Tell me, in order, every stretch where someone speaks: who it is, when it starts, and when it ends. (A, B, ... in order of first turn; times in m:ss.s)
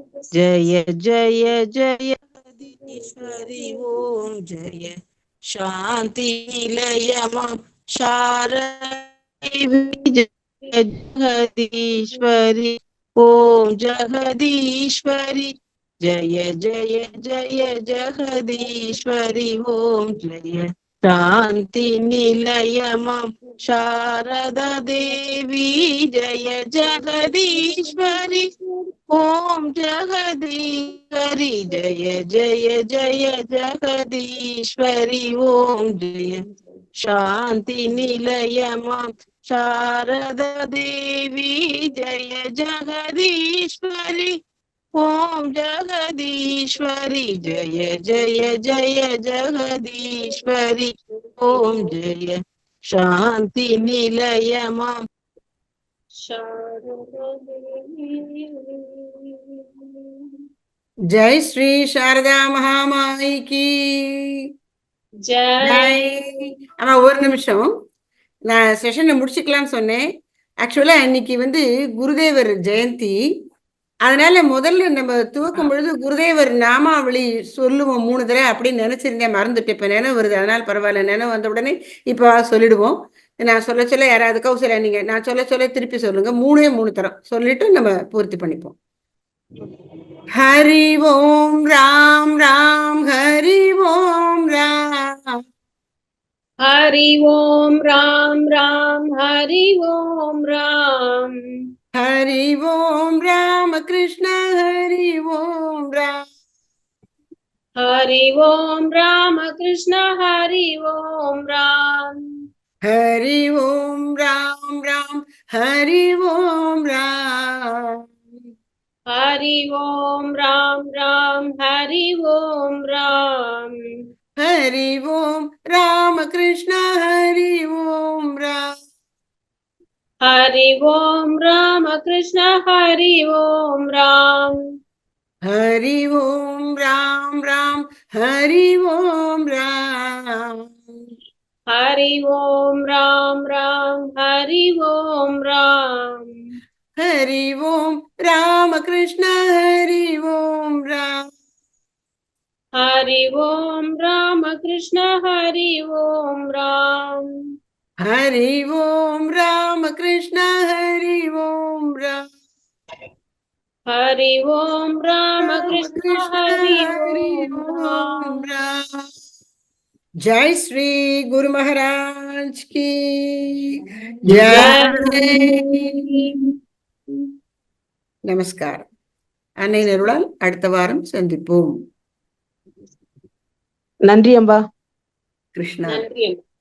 0:00.3-0:05.0 A
0:02.9-0:03.8 B
0:05.5-0:15.5 A
0:16.0-0:28.5 A
0:27.6-0:28.0 B
0:29.1-0:36.4 A
0:37.0-0:44.4 A
0:45.0-0:52.4 A
0:51.5-0:51.9 B
0:52.9-0:55.0 A
0:56.2-1:00.3 B
1:01.1-1:04.3 C
1:05.3-1:06.0 B
1:05.7-1:07.7 C
1:08.5-1:10.0 C
1:10.6-1:13.2 C
1:14.1-1:28.8 C
1:30.4-1:35.2 C
1:36.6-1:41.3 B
1:42.0-1:46.2 C
1:47.8-1:52.2 B
1:52.9-1:57.9 C
1:59.1-2:03.8 B
2:04.4-2:08.7 C
2:10.2-2:14.6 B
2:15.5-2:20.5 C
2:21.7-2:26.3 B
2:27.0-2:31.2 C
2:32.8-2:37.3 B
2:38.0-2:42.2 C
2:43.9-2:48.4 B
2:45.4-2:48.9 C
2:50.3-2:53.6 C
2:54.3-2:56.2 C
2:54.5-2:55.5 B
2:56.0-2:56.3 B
2:58.3-2:58.9 C
2:59.6-3:01.7 C
3:04.0-3:04.6 A
3:05.6-3:06.0 C
3:05.9-3:06.4 B